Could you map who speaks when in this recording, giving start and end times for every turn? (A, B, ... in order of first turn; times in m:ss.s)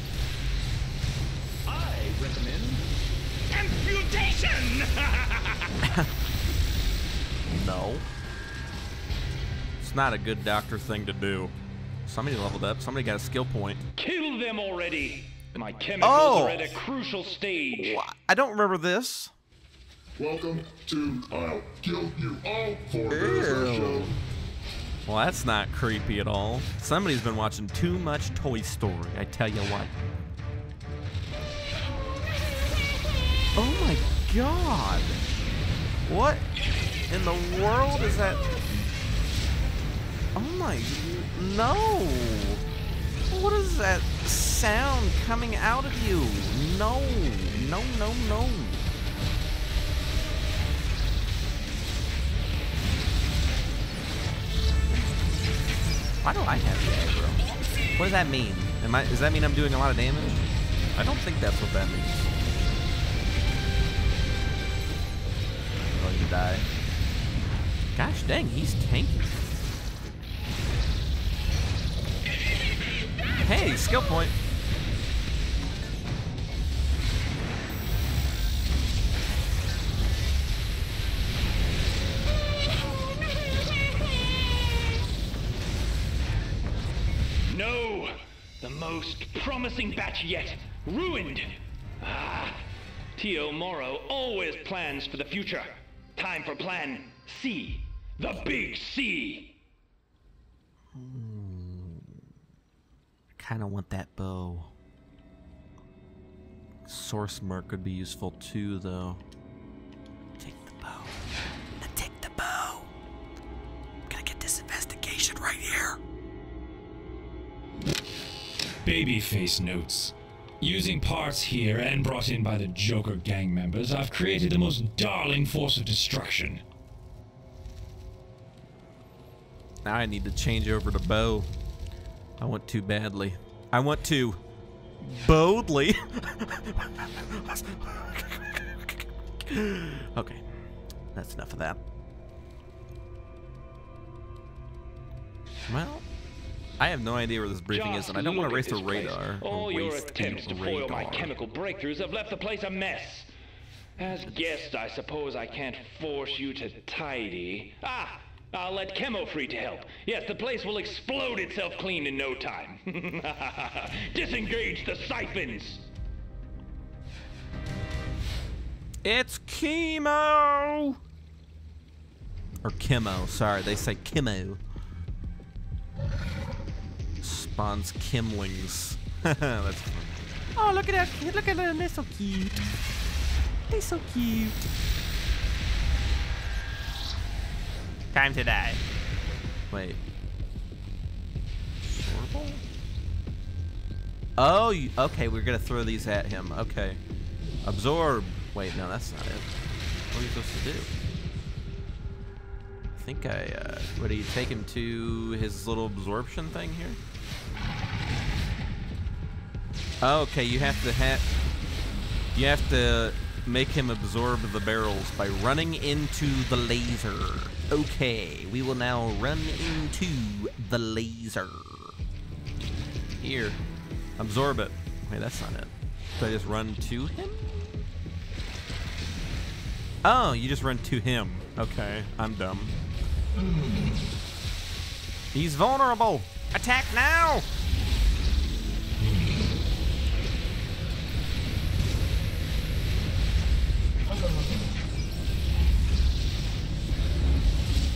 0:01.7-0:02.7 A
0:03.5-0:05.7 A
0:07.5-0:08.0 B
0:09.8-0:11.5 B
0:12.0-0:13.8 B
0:14.0-0:18.0 A
0:16.0-0:16.8 B
0:17.8-0:19.3 B
0:20.2-0:24.0 C
0:23.1-0:24.2 B
0:25.0-0:29.9 B
0:33.6-0:35.2 B
0:36.0-0:36.4 B
0:37.1-0:38.4 B
0:40.3-0:42.6 B
0:43.3-0:48.9 B
0:56.2-1:00.4 B
1:00.9-1:02.3 B
1:05.9-1:06.6 B
1:07.9-1:09.5 B
1:13.4-1:14.3 B
1:27.5-1:32.6 A
1:33.2-1:39.6 A
1:40.9-1:42.2 B
1:43.4-1:44.7 B
1:46.8-1:49.2 B
1:50.4-1:51.1 B
1:51.8-1:52.9 B
1:54.1-1:56.0 B
1:58.8-2:06.6 D
2:09.8-2:11.5 B
2:12.4-2:14.4 B
2:15.0-2:20.4 B
2:21.1-2:21.8 B
2:25.7-2:26.0 B
2:26.8-2:31.4 B
2:27.7-2:33.3 A
2:34.0-2:45.8 A
2:49.0-2:51.0 B
2:52.6-2:54.6 B
2:57.2-3:02.6 B
3:03.7-3:04.7 B
3:08.1-3:08.8 B
3:09.7-3:10.0 B
3:11.8-3:12.6 B
3:14.4-3:17.0 B
3:17.6-3:19.5 B
3:20.1-3:20.9 B
3:23.0-3:27.0 B
3:30.0-3:31.2 B
3:32.3-3:42.0 B
3:43.2-3:43.6 B
3:44.2-3:47.8 B
3:50.0-3:52.7 B
3:55.3-3:57.4 B